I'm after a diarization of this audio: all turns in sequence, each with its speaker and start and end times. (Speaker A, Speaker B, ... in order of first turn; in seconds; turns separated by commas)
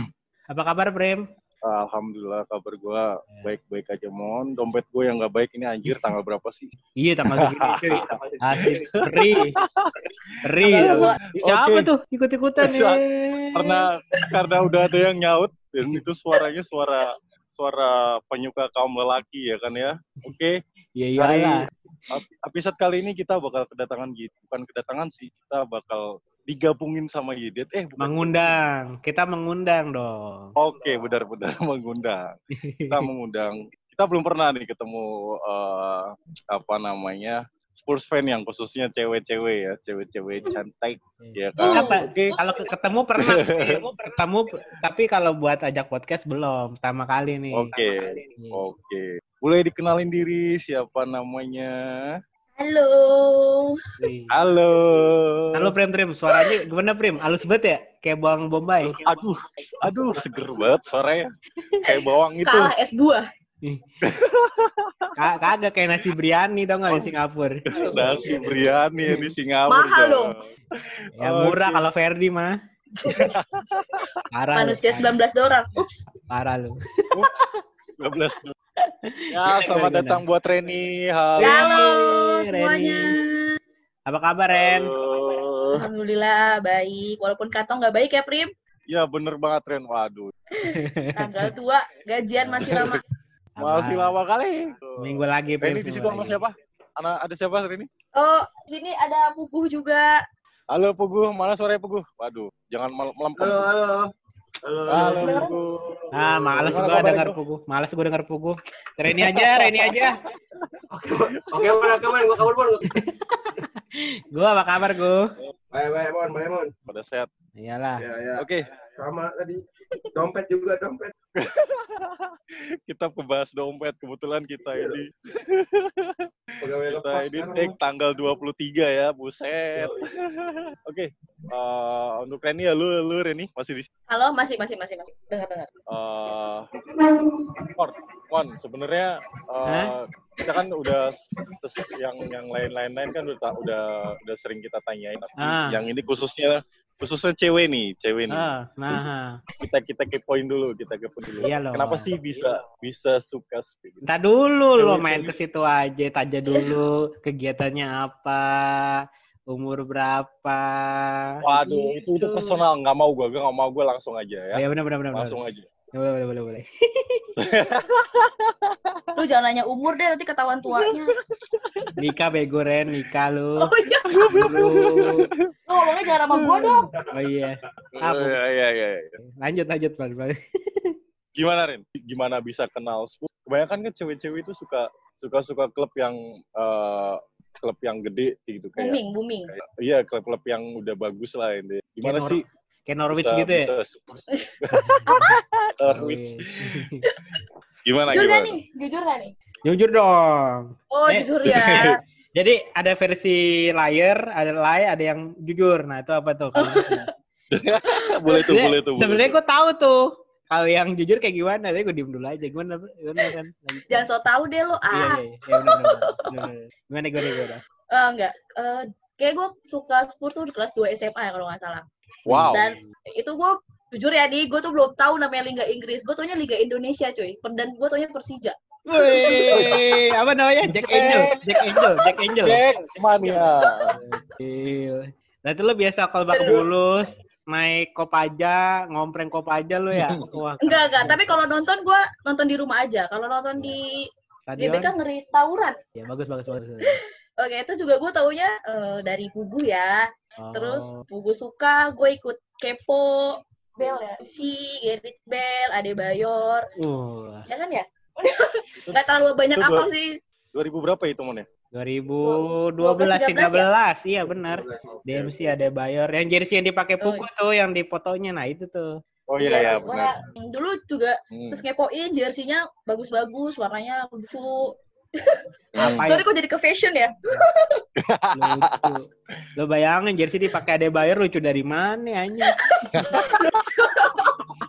Speaker A: 0.5-1.2, Speaker B: 1.6-6.7, Speaker A: 7.0-9.6, Speaker B: 7.3-9.9, Speaker C: 8.0-8.9, Speaker A: 10.4-13.8, Speaker B: 10.6-11.9, Speaker D: 10.6-11.2, Speaker B: 12.6-13.0, Speaker B: 13.5-20.5, Speaker A: 21.0-21.6, Speaker B: 21.2-28.5, Speaker A: 28.0-30.4, Speaker B: 30.6-32.3, Speaker C: 30.7-31.1, Speaker A: 32.5-33.1, Speaker B: 32.9-42.3, Speaker A: 41.2-48.6, Speaker D: 41.6-42.7, Speaker B: 43.2-43.9, Speaker B: 47.5-51.7, Speaker D: 52.6-53.8, Speaker A: 54.0-54.4, Speaker B: 54.3-55.7, Speaker A: 55.5-59.0, Speaker B: 59.0-61.2, Speaker B: 61.8-62.7, Speaker D: 62.4-63.2, Speaker B: 64.0-65.1, Speaker A: 65.2-67.6, Speaker C: 67.7-68.9, Speaker B: 67.7-71.8, Speaker A: 69.0-69.3, Speaker D: 69.7-70.3, Speaker A: 71.2-72.5, Speaker D: 73.0-73.3, Speaker B: 73.2-74.2, Speaker A: 74.3-75.2, Speaker D: 74.5-76.0, Speaker A: 76.3-76.8, Speaker B: 77.1-78.5, Speaker A: 79.1-80.2, Speaker B: 79.3-81.8, Speaker A: 81.4-83.1, Speaker D: 81.4-83.3, Speaker A: 84.1-84.9, Speaker B: 84.5-85.8, Speaker D: 85.7-88.5, Speaker B: 88.9-90.3, Speaker D: 90.6-93.0, Speaker A: 90.7-91.5, Speaker B: 92.6-93.0, Speaker A: 93.6-94.1, Speaker B: 93.6-97.9, Speaker A: 95.0-96.4, Speaker D: 98.2-100.1, Speaker B: 100.7-103.7, Speaker C: 103.4-104.1, Speaker C: 104.6-105.5, Speaker B: 104.9-107.4, Speaker D: 105.2-105.5, Speaker A: 106.1-110.2, Speaker C: 106.5-107.0, Speaker B: 109.1-110.1, Speaker C: 110.9-112.9, Speaker B: 111.4-111.9, Speaker A: 112.9-115.2, Speaker C: 115.7-116.7, Speaker B: 116.9-117.3, Speaker A: 117.6-118.0, Speaker C: 118.0-118.4, Speaker B: 118.4-118.7, Speaker C: 119.0-119.6, Speaker C: 120.1-121.1, Speaker B: 121.3-122.3, Speaker B: 122.9-126.3, Speaker C: 124.7-125.0, Speaker C: 126.6-127.7, Speaker B: 126.9-133.9, Speaker C: 129.8-130.1, Speaker D: 134.1-135.7, Speaker B: 135.9-136.7, Speaker B: 137.7-148.4, Speaker A: 145.4-145.8, Speaker A: 148.3-149.3, Speaker B: 149.6-154.0, Speaker A: 151.4-152.6, Speaker A: 154.0-159.0, Speaker B: 154.8-155.3, Speaker A: 159.5-162.6, Speaker B: 161.4-165.7, Speaker A: 164.5-165.4, Speaker A: 165.9-167.3, Speaker B: 167.4-169.1, Speaker D: 169.2-171.1, Speaker B: 170.7-172.0, Speaker A: 172.0-173.7, Speaker D: 173.6-174.2, Speaker B: 174.1-175.5, Speaker A: 174.2-175.3, Speaker D: 175.7-176.9, Speaker B: 176.1-176.8, Speaker A: 177.1-178.4, Speaker B: 177.9-179.1, Speaker A: 179.2-180.9, Speaker B: 181.4-189.0, Speaker D: 188.8-189.5, Speaker B: 189.8-192.4, Speaker A: 192.0-193.7, Speaker B: 193.1-196.8, Speaker A: 194.7-195.2, Speaker D: 195.1-195.4, Speaker A: 195.9-197.0, Speaker D: 197.1-197.4, Speaker B: 197.8-198.5, Speaker D: 198.1-199.3, Speaker A: 199.6-207.1, Speaker D: 200.9-202.0, Speaker B: 201.4-202.0, Speaker D: 206.6-207.1, Speaker B: 207.5-209.3, Speaker D: 208.2-208.5, Speaker A: 208.5-214.1, Speaker D: 213.9-215.9, Speaker A: 214.9-217.6, Speaker D: 217.2-221.8, Speaker A: 222.2-222.9, Speaker B: 222.3-222.6, Speaker D: 222.5-228.6, Speaker A: 228.9-232.6, Speaker D: 229.2-229.7, Speaker B: 229.4-229.9, Speaker B: 230.6-233.9, Speaker D: 233.4-233.9, Speaker A: 234.4-241.4, Speaker D: 236.3-236.7, Speaker B: 239.9-240.3, Speaker D: 240.6-244.0, Speaker A: 244.5-244.9, Speaker D: 244.6-245.8, Speaker A: 245.9-246.9, Speaker D: 246.9-250.0, Speaker A: 250.4-251.0, Speaker D: 250.5-256.6, Speaker A: 256.8-257.5, Speaker D: 257.5-260.1, Speaker B: 259.5-259.9, Speaker B: 260.5-261.4, Speaker A: 261.7-268.9, Speaker D: 262.2-263.6, Speaker C: 264.3-265.6, Speaker B: 269.3-270.1, Speaker D: 269.4-277.8, Speaker C: 269.6-270.1, Speaker B: 271.3-271.6, Speaker B: 275.7-276.1, Speaker A: 275.8-276.2, Speaker B: 278.0-278.9, Speaker A: 278.3-279.0, Speaker A: 279.6-283.0, Speaker D: 282.6-284.6, Speaker B: 282.9-283.6